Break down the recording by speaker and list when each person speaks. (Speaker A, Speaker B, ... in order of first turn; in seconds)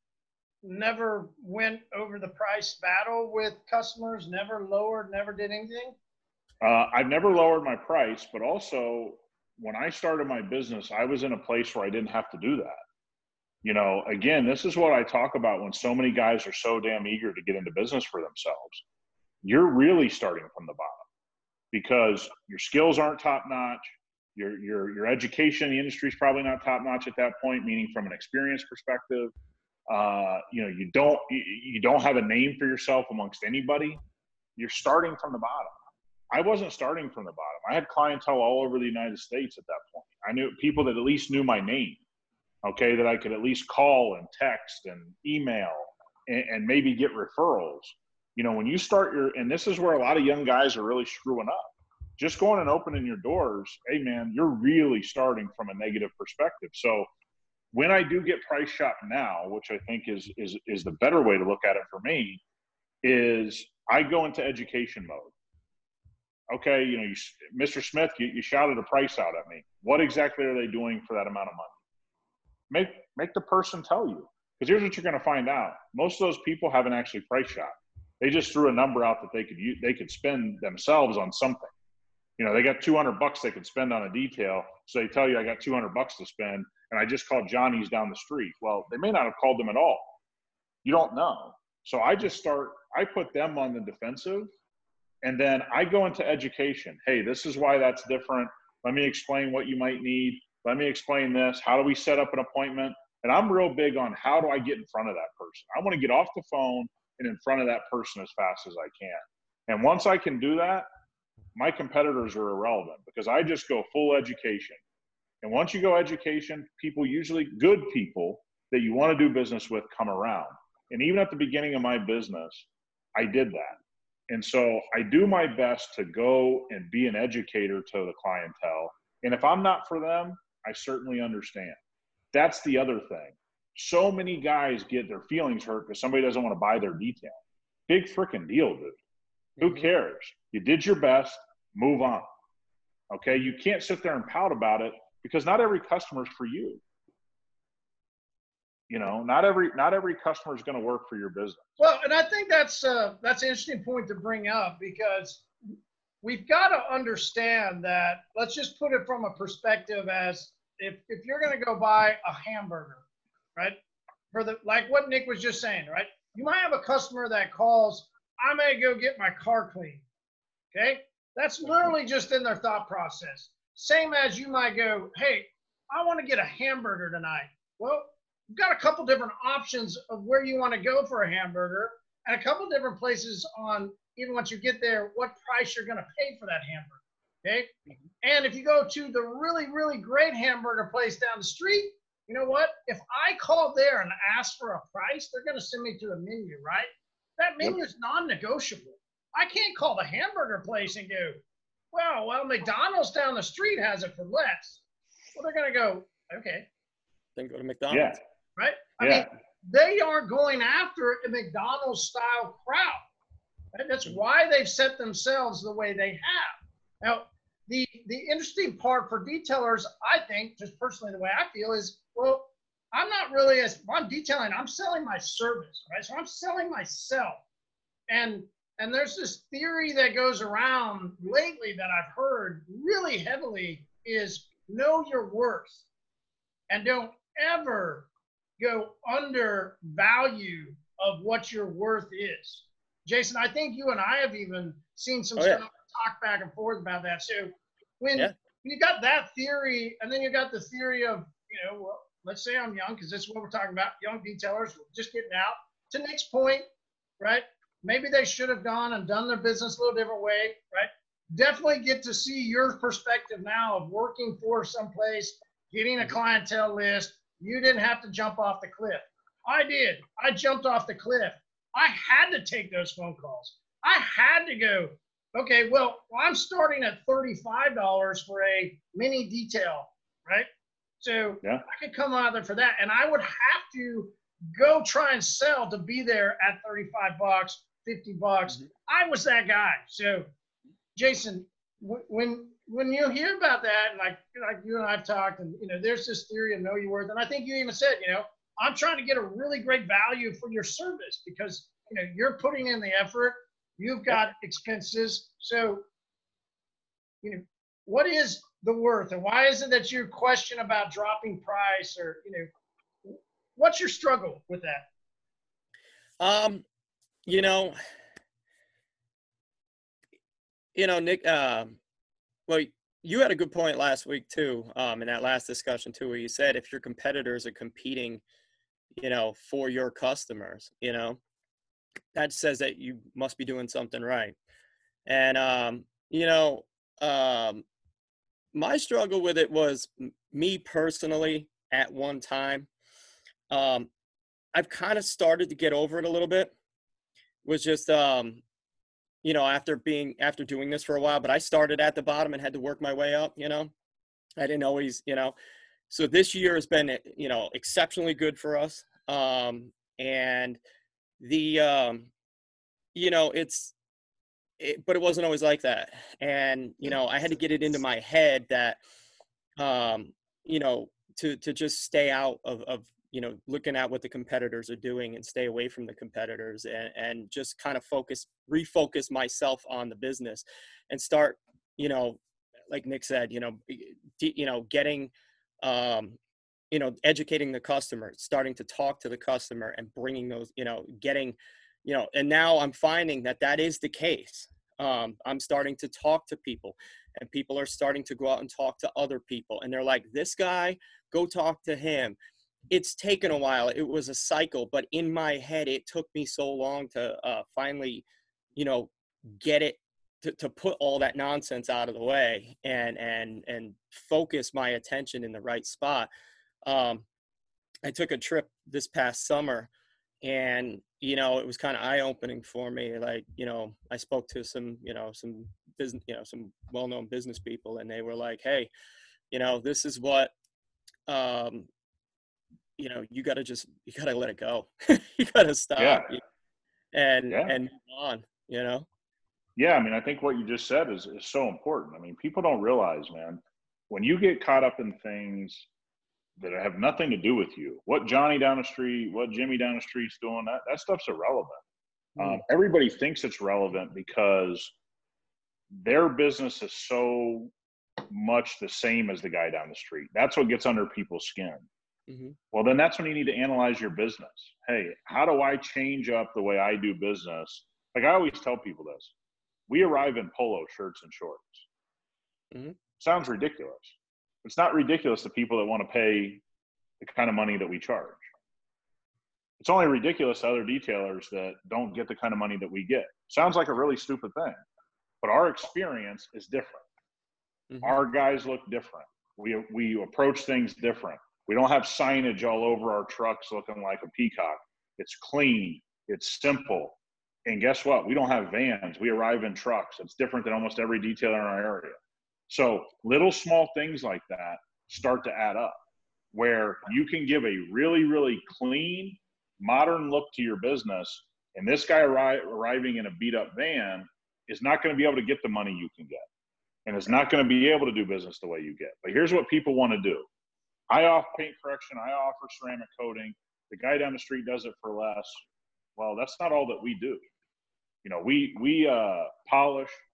Speaker A: 0.6-6.0, 151.8-155.5, 156.2-163.0, 164.3-170.0, 170.7-187.7, 188.2-201.4, 201.9-204.8, 205.3-206.7, 208.6-213.0, 213.7-227.4, 228.1-235.8, 236.7-238.1, 238.6-256.6, 257.2-280.5, 281.0-290.3, 290.9-305.8, 307.2-312.5, 313.0-314.9
Speaker B: 6.6-12.8, 13.6-18.8, 19.4-21.0, 21.7-29.3, 29.9-34.0, 34.6-35.7, 36.3-42.0, 42.6-57.1, 57.7-62.4, 63.0-65.3, 66.5-71.7, 72.7-81.7, 82.4-90.2, 90.8-94.5, 95.2-110.9, 111.5-114.8, 115.4-131.8, 132.3-137.4, 137.9-139.0, 139.6-142.3, 143.1-146.8, 148.9-151.7, 207.9-208.2, 209.0-209.2, 435.8-436.1, 437.3-437.5, 439.6-445.7, 446.4-451.6, 452.2-454.7, 455.7-457.5, 458.1-461.7, 462.5-469.1, 469.7-471.6, 473.0-476.4, 477.0-478.2, 479.6-484.6, 485.2-486.9, 487.8-502.0, 502.5-505.8, 506.3-516.2, 516.9-520.3, 520.9-525.4, 526.0-527.2, 528.0-530.0
Speaker C: 139.6-139.8, 207.3-208.2, 245.4-245.6, 316.2-316.6, 317.2-317.8, 320.7-321.8, 322.5-328.2, 329.0-331.2, 332.1-334.4, 335.1-337.6, 338.5-342.7, 343.5-343.9, 344.5-346.5, 347.4-348.4, 349.2-353.7, 354.4-355.3, 355.9-360.6, 361.2-362.1, 362.9-363.7, 364.6-368.8, 369.6-382.2, 382.7-386.2, 386.7-402.2, 402.7-408.0, 408.6-416.1, 416.6-417.0, 417.8-419.7, 420.2-428.7, 429.3-430.3, 431.1-431.7, 432.8-436.2, 436.9-438.9, 452.2-452.4, 462.1-462.4, 487.7-487.9